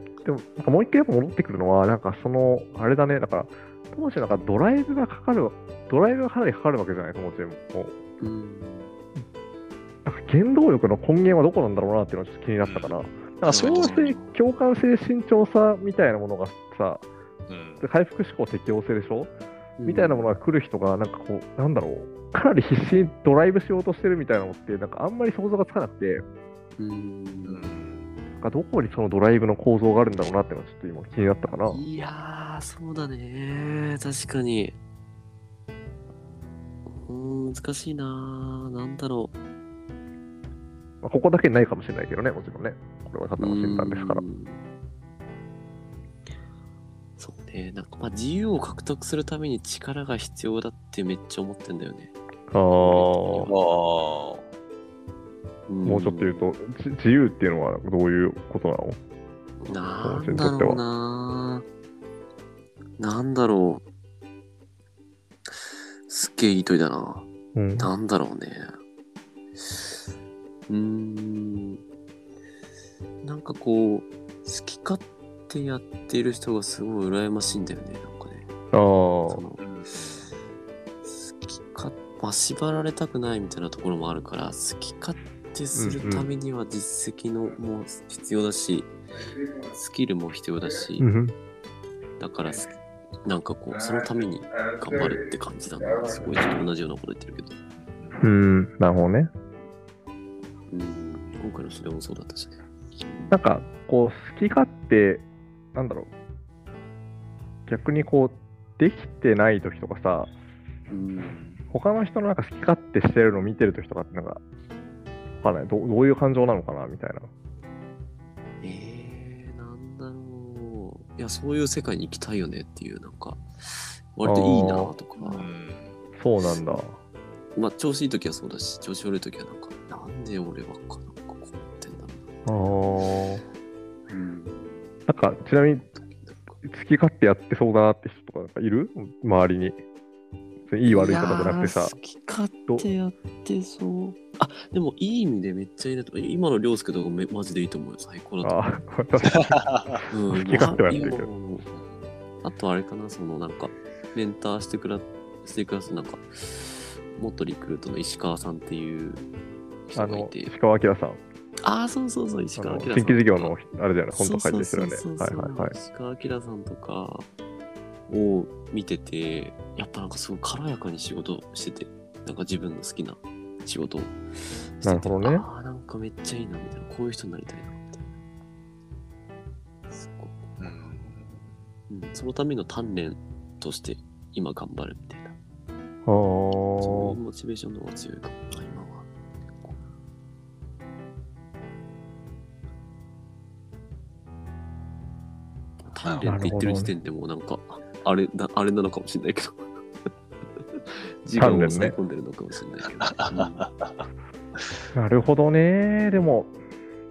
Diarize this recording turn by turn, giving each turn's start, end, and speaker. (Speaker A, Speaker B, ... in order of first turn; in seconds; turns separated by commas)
Speaker A: 0.2-8.0, Speaker B: 8.2-8.9, Speaker A: 10.1-17.1, Speaker C: 12.6-13.0, Speaker B: 13.4-14.4, Speaker C: 17.5-17.8, Speaker A: 17.8-19.3, Speaker B: 19.8-20.3, Speaker A: 19.9-26.2, Speaker B: 26.8-27.7, Speaker C: 27.5-28.1, Speaker A: 28.4-31.8, Speaker B: 31.7-34.8, Speaker B: 36.9-39.3, Speaker A: 41.0-44.2, Speaker B: 43.4-44.6, Speaker B: 47.2-52.1, Speaker A: 52.5-53.5, Speaker B: 52.7-53.5, Speaker C: 53.5-54.5, Speaker B: 55.7-56.5, Speaker A: 55.9-59.0, Speaker B: 59.6-61.6, Speaker A: 60.0-60.8, Speaker B: 63.0-63.8, Speaker B: 66.1-67.3, Speaker A: 67.5-67.9, Speaker B: 67.8-68.7, Speaker B: 70.7-71.8, Speaker B: 73.2-78.5, Speaker A: 78.7-79.4, Speaker B: 79.3-79.6, Speaker C: 79.6-80.2, Speaker B: 81.0-88.9, Speaker A: 85.8-86.3, Speaker B: 89.7-91.1, Speaker A: 91.0-91.3, Speaker B: 92.2-92.7, Speaker B: 93.2-97.6, Speaker C: 97.8-98.2, Speaker A: 98.2-99.3, Speaker B: 100.7-103.4, Speaker A: 103.3-106.1, Speaker A: 107.7-110.3, Speaker B: 110.9-111.6, Speaker A: 111.7-114.4, Speaker A: 115.4-117.3, Speaker B: 118.6-125.5, Speaker A: 124.2-124.9, Speaker C: 125.2-126.0, Speaker A: 126.2-127.0, Speaker B: 127.5-132.8, Speaker A: 132.5-133.4, Speaker B: 134.1-134.9, Speaker A: 135.1-135.9, Speaker B: 135.8-136.6, Speaker A: 136.6-139.8, Speaker A: 140.7-142.0, Speaker B: 140.8-148.6, Speaker A: 142.7-142.9, Speaker A: 148.4-151.3, Speaker C: 149.4-150.0, Speaker B: 150.1-151.7, Speaker C: 151.7-152.0, Speaker B: 152.4-159.3, Speaker B: 159.9-160.5, Speaker A: 160.0-161.2, Speaker B: 161.6-163.6, Speaker A: 162.6-165.8, Speaker B: 164.1-167.3, Speaker B: 168.1-174.2, Speaker B: 174.8-178.1, Speaker A: 174.8-175.5, Speaker B: 179.9-180.5, Speaker C: 180.6-181.4, Speaker B: 181.9-185.3, Speaker A: 186.1-187.2, Speaker B: 186.8-189.1, Speaker B: 195.8-199.7, Speaker A: 196.2-196.9, Speaker B: 200.6-203.6, Speaker A: 201.3-202.0, Speaker C: 203.1-204.0, Speaker A: 204.9-206.5